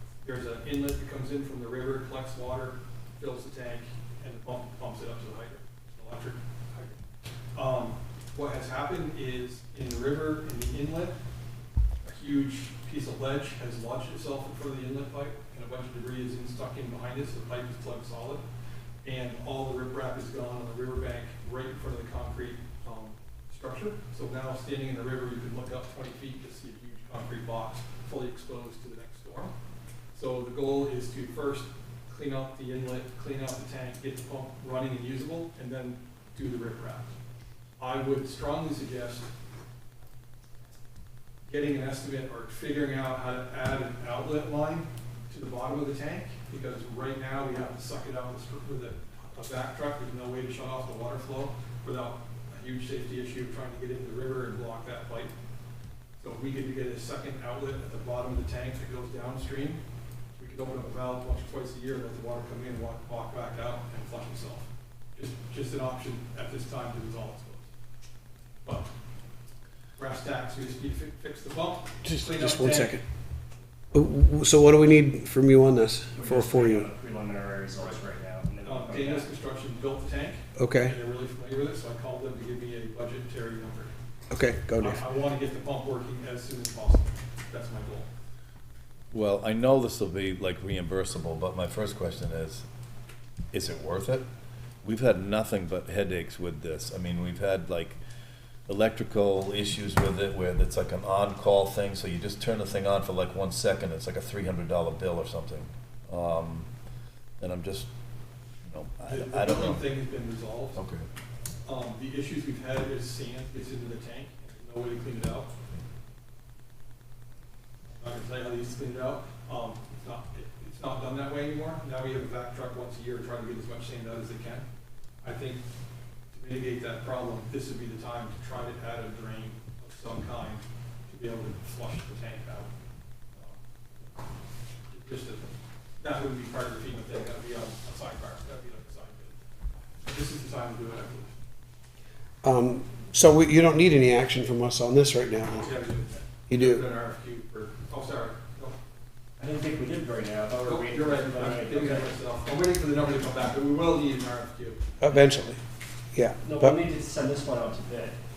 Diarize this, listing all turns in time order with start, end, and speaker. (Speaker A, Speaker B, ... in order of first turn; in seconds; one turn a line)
Speaker A: 0.2-7.0
Speaker A: 7.5-11.2
Speaker A: 12.1-18.4
Speaker A: 19.1-29.5
Speaker A: 30.1-37.1
Speaker A: 37.8-39.3
Speaker A: 41.5-55.3
Speaker A: 56.2-59.8
Speaker A: 60.4-67.7
Speaker A: 68.6-68.9
Speaker A: 70.0-73.0
Speaker B: 72.0-73.0
Speaker B: 73.9-76.9
Speaker C: 76.2-79.3
Speaker A: 77.8-78.0
Speaker A: 78.6-83.9
Speaker B: 80.6-81.0
Speaker B: 84.3-85.0
Speaker A: 84.8-88.1
Speaker D: 89.1-92.7
Speaker D: 93.5-94.2
Speaker D: 94.8-98.0
Speaker D: 98.7-106.7
Speaker D: 107.4-107.9
Speaker D: 108.7-110.0
Speaker A: 109.1-110.8
Speaker D: 110.8-111.1
Speaker A: 111.7-115.5
Speaker A: 118.0-124.7
Speaker A: 125.2-125.6
Speaker A: 126.3-132.7
Speaker A: 134.9-139.4
Speaker A: 140.0-141.4
Speaker B: 142.4-145.8
Speaker A: 145.6-148.8
Speaker B: 146.5-146.8
Speaker C: 149.4-152.1
Speaker A: 150.7-154.8
Speaker B: 155.0-155.6
Speaker B: 156.1-156.8
Speaker C: 156.4-158.2